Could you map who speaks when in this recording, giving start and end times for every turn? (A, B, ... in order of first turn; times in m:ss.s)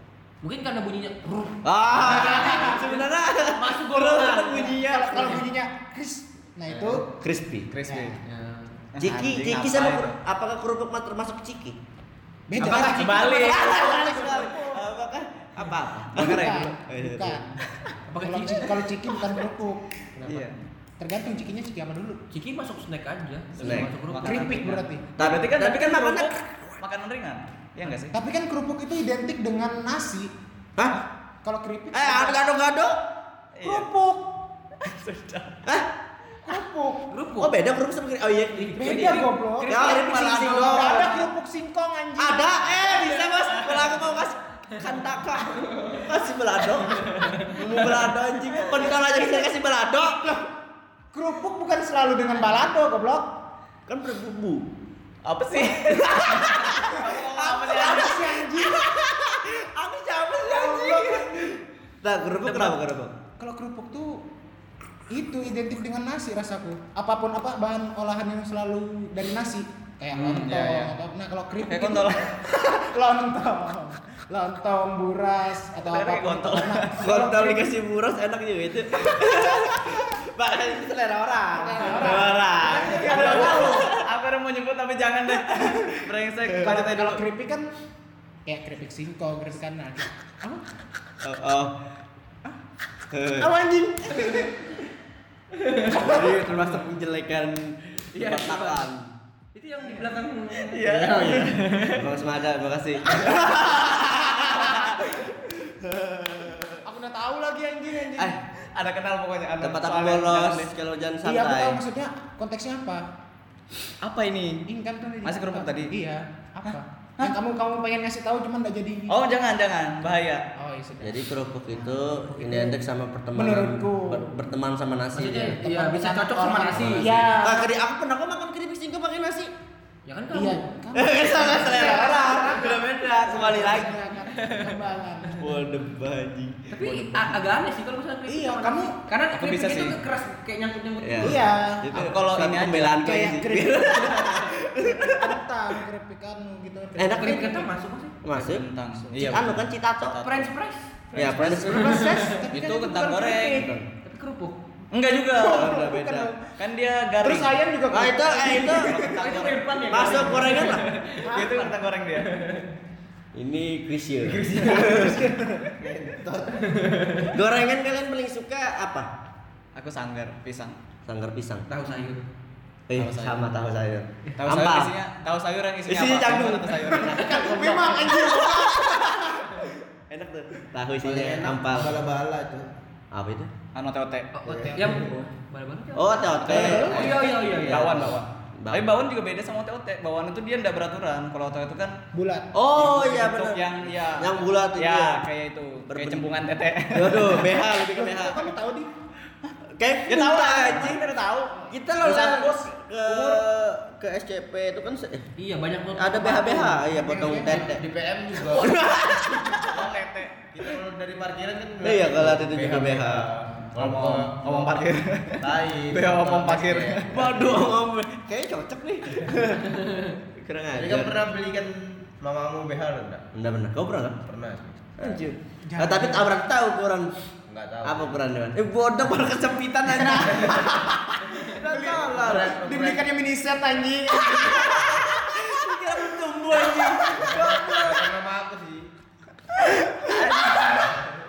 0:00.4-0:04.8 A
0:01.6-0:05.4 B
0:02.0-0:02.8 C
0:04.8-0:07.0 C
0:06.8-0:07.7 B
0:07.7-0:08.2 D
0:07.9-0:08.2 C
0:08.2-0:08.7 A
0:08.9-0:10.1 D
0:09.0-0:11.8 B
0:12.5-0:14.8 C
0:12.6-0:13.8 D
0:12.6-0:17.4 B
0:16.1-0:16.8 D
0:16.2-0:17.4 C
0:18.1-0:18.8 A
0:18.2-0:19.8 C
0:20.2-0:20.4 A
0:20.2-0:20.6 D
0:21.0-0:22.2 C
0:22.3-0:24.6 A
0:23.6-0:23.9 B
0:23.6-0:28.1 D
0:24.2-0:25.0 C
0:25.2-0:26.7 B
0:28.1-0:30.3 C
0:30.8-0:31.0 B
0:31.4-0:32.4 C
0:31.9-0:32.9 B
0:33.6-0:33.9 D
0:33.6-0:34.2 C
0:34.8-0:35.6 D
0:35.6-0:35.9 B
0:36.4-0:37.1 C
0:37.1-0:37.5 A
0:37.4-0:41.3 B
0:38.6-0:41.1 A
0:38.8-0:43.4 C
0:42.2-0:50.3 B
0:45.7-0:46.0 A
0:46.8-0:47.9 A
0:51.1-0:53.3 C
0:53.9-0:54.6 B
0:55.2-0:58.2 D
0:56.0-1:03.1 B
0:56.9-0:58.8 C
1:00.4-1:01.5 C
1:02.3-1:02.8 A
1:03.4-1:04.2 C
1:05.1-1:17.7 C
1:10.1-1:10.9 D
1:11.6-1:12.4 D
1:15.8-1:17.1 D
1:17.0-1:24.0 B
1:21.5-1:23.9 C
1:22.8-1:27.2 D
1:26.5-1:27.7 C
1:28.4-1:30.6 C
1:31.2-1:31.8 B
1:33.1-1:33.5 B
1:33.4-1:34.5 C
1:35.6-1:36.0 A
1:35.8-1:39.1 B
1:38.2-1:38.9 A
1:39.5-1:41.9 A
1:40.6-1:42.1 D
1:41.9-1:44.8 B
1:43.1-1:44.9 D
1:45.7-1:46.8 B
1:46.8-1:48.4 C
1:48.2-1:50.7 D
1:49.6-1:51.8 B
1:51.2-1:53.1 C
1:54.0-1:54.6 D
1:54.7-1:59.1 C
1:55.2-1:55.9 D
1:56.6-1:57.4 D
1:59.1-2:00.4 D
2:00.6-2:02.8 C
2:01.0-2:05.6 B
2:03.4-2:04.2 C
2:05.1-2:07.2 A
2:05.6-2:07.7 C
2:06.8-2:09.5 B
2:10.0-2:10.7 A
2:10.3-2:15.6 C
2:10.9-2:14.0 B
2:15.4-2:16.8 B
2:16.7-2:21.4 A
2:16.9-2:17.2 D
2:18.3-2:19.0 C
2:19.3-2:20.0 D
2:21.0-2:25.4 B
2:21.2-2:22.0 C
2:21.9-2:23.0 D
2:23.0-2:27.7 C
2:27.0-2:27.5 B
2:27.1-2:28.1 A
2:28.2-2:30.2 B
2:28.3-2:30.5 D
2:29.0-2:29.5 C
2:30.1-2:30.9 A
2:31.1-2:31.8 D
2:31.1-2:32.0 B
2:31.3-2:33.7 C
2:31.7-2:32.4 A
2:32.5-2:33.7 D
2:33.5-2:33.8 B
2:34.0-2:34.6 A
2:34.9-2:37.5 D
2:35.3-2:36.4 C
2:37.2-2:39.2 C
2:37.9-2:39.0 B
2:38.5-2:39.6 D
2:39.1-2:41.4 A
2:39.9-2:40.9 B
2:41.2-2:42.3 D
2:41.2-2:41.8 C
2:42.2-2:42.7 A
2:43.3-2:45.3 B
2:44.3-2:45.2 A
2:44.6-2:45.5 C
2:45.8-2:46.5 E
2:46.6-2:47.3 A
2:47.3-2:49.1 B
2:49.7-2:50.8 D
2:51.0-2:51.6 B
2:51.7-2:52.2 A
2:52.9-2:54.9 B
2:53.0-2:53.5 D
2:54.4-2:57.4 D
2:55.9-3:02.0 B
2:57.0-2:59.5 C
3:01.0-3:02.7 E
3:03.1-3:03.5 B
3:03.7-3:04.3 D
3:04.3-3:07.9 A
3:04.5-3:04.8 E
3:04.5-3:04.8 C
3:05.9-3:08.9 B
3:06.3-3:12.0 D
3:06.5-3:07.3 C
3:12.1-3:12.5 C
3:12.5-3:15.2 B
3:12.8-3:17.6 D
3:15.9-3:16.3 B
3:16.9-3:18.5 B
3:17.6-3:18.9 C
3:19.8-3:21.0 B
3:20.1-3:23.4 D
3:21.7-3:25.3 B
3:25.4-3:26.8 A
3:26.0-3:27.8 B
3:26.9-3:27.6 C
3:27.2-3:28.8 E
3:28.4-3:29.8 B
3:29.4-3:30.3 D
3:30.5-3:34.9 E
3:31.8-3:33.3 B
3:33.7-3:37.3 D
3:35.4-3:37.4 E
3:37.1-3:39.8 B
3:39.7-3:40.1 A
3:40.3-3:41.2 B
3:40.7-3:43.2 E
3:43.3-3:44.2 B
3:44.2-3:45.2 E
3:45.0-3:47.1 B
3:45.7-3:46.4 C
3:47.5-3:48.2 E
3:47.8-3:52.7 B
3:49.9-3:55.2 C
3:51.8-3:53.0 E
3:54.3-3:58.1 B
3:56.6-3:57.1 C
3:57.2-3:58.9 E
3:59.6-4:01.0 B